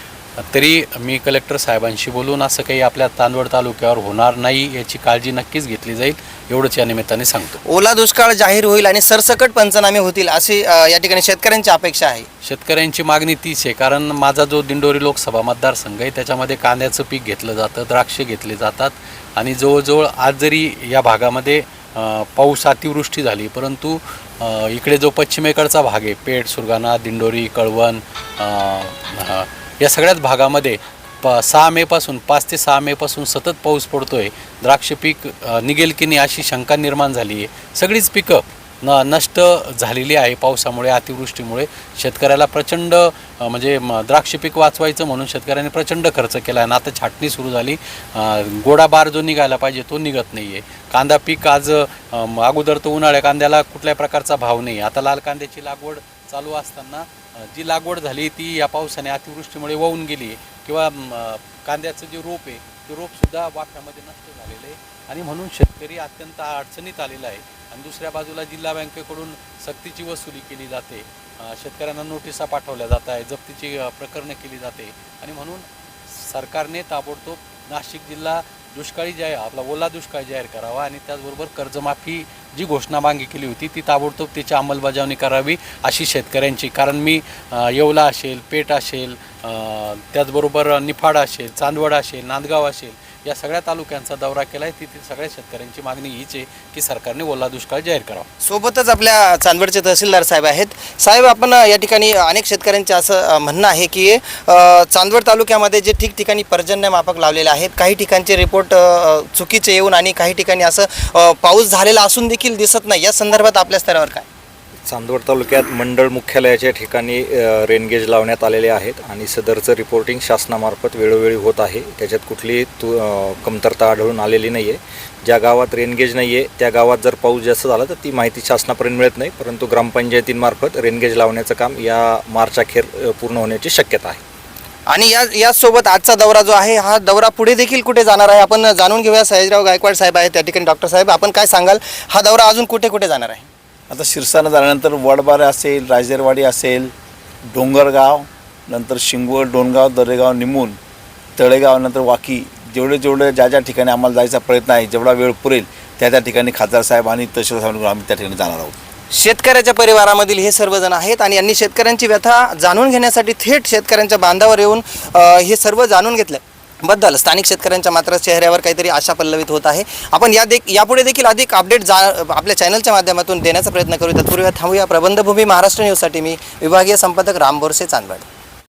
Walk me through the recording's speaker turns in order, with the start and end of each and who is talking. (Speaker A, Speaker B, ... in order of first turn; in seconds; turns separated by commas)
Speaker A: 0.4-7.6, Speaker B: 7.7-12.3, Speaker A: 12.4-98.3, Speaker B: 98.4-114.3, Speaker C: 114.8-134.2, Speaker B: 134.9-143.5, Speaker D: 143.9-146.9, Speaker D: 147.5-150.8, Speaker D: 151.4-158.8, Speaker B: 159.1-178.3